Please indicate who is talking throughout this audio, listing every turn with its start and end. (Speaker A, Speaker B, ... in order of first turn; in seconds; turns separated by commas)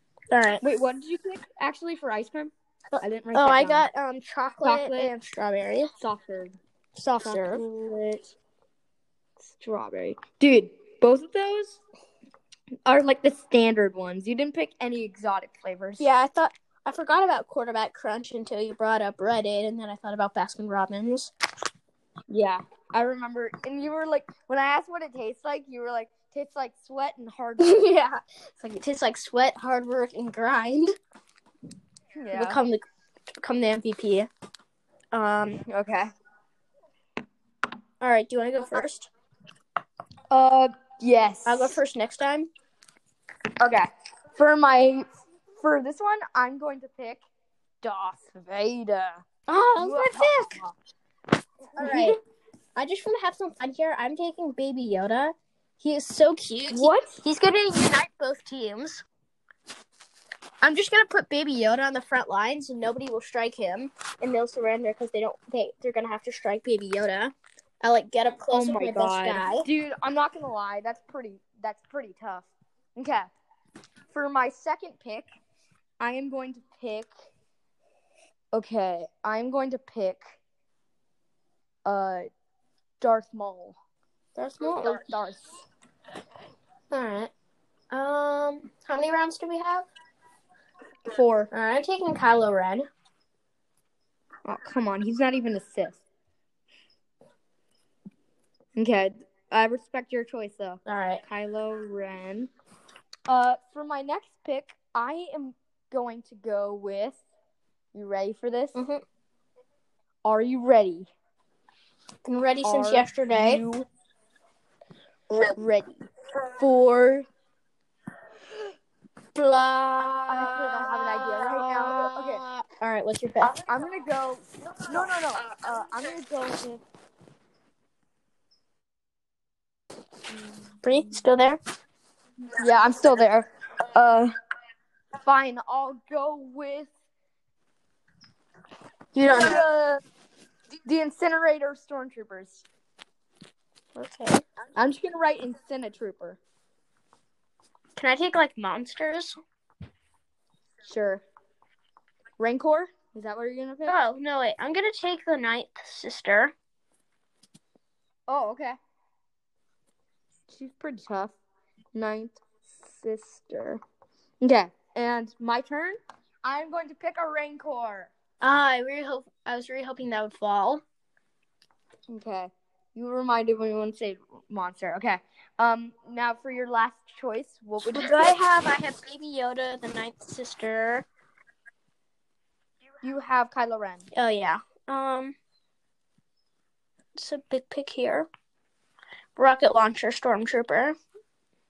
Speaker A: 0.3-0.6, Speaker B: 0.6-3.9, Speaker A: 2.9-5.9, Speaker B: 4.6-5.1, Speaker B: 6.0-8.3, Speaker A: 7.0-7.6, Speaker B: 9.4-11.8, Speaker B: 12.8-16.1, Speaker A: 16.0-21.3, Speaker B: 22.3-27.9, Speaker A: 27.6-30.9, Speaker B: 32.1-32.6, Speaker A: 32.3-32.8, Speaker A: 33.4-34.3, Speaker A: 35.1-35.6, Speaker B: 35.6-36.1, Speaker A: 38.0-39.1, Speaker B: 40.3-41.8, Speaker A: 41.4-42.5, Speaker B: 43.6-45.1, Speaker B: 45.6-47.2, Speaker B: 47.8-49.2, Speaker A: 49.5-50.6, Speaker B: 49.8-50.7, Speaker B: 51.8-52.2, Speaker A: 51.8-52.1, Speaker A: 52.8-59.0, Speaker B: 56.7-57.2, Speaker A: 60.6-69.7, Speaker B: 68.5-73.3, Speaker B: 74.1-75.2, Speaker B: 76.0-77.1, Speaker B: 78.5-80.4, Speaker B: 81.8-82.3, Speaker B: 83.0-83.8, Speaker A: 84.3-85.0, Speaker B: 84.7-85.6, Speaker A: 86.9-87.3, Speaker A: 87.9-89.9, Speaker B: 91.1-91.5, Speaker A: 91.5-92.8, Speaker B: 94.4-96.0, Speaker B: 98.8-102.5, Speaker A: 100.8-101.2, Speaker B: 103.3-107.2, Speaker B: 107.9-108.8, Speaker A: 108.7-109.0, Speaker B: 110.2-111.1, Speaker A: 112.2-113.6, Speaker B: 112.6-113.9, Speaker B: 115.5-117.2, Speaker A: 119.3-123.5, Speaker B: 120.3-122.4, Speaker B: 123.4-126.8, Speaker B: 130.5-131.2, Speaker A: 130.8-131.6, Speaker B: 132.5-134.3, Speaker B: 135.2-136.9, Speaker A: 139.1-139.6, Speaker B: 139.3-140.0, Speaker B: 140.8-142.6, Speaker A: 143.9-144.4, Speaker B: 144.8-146.4, Speaker A: 147.9-149.3, Speaker B: 150.8-151.2, Speaker B: 152.4-154.0, Speaker A: 153.8-156.5, Speaker B: 158.3-158.8, Speaker B: 160.5-161.3, Speaker B: 161.9-163.8, Speaker B: 164.4-168.1, Speaker A: 168.4-170.8, Speaker B: 172.1-178.4, Speaker A: 177.8-181.1, Speaker B: 183.0-184.1, Speaker A: 184.1-185.3, Speaker A: 187.2-188.3, Speaker A: 189.3-190.9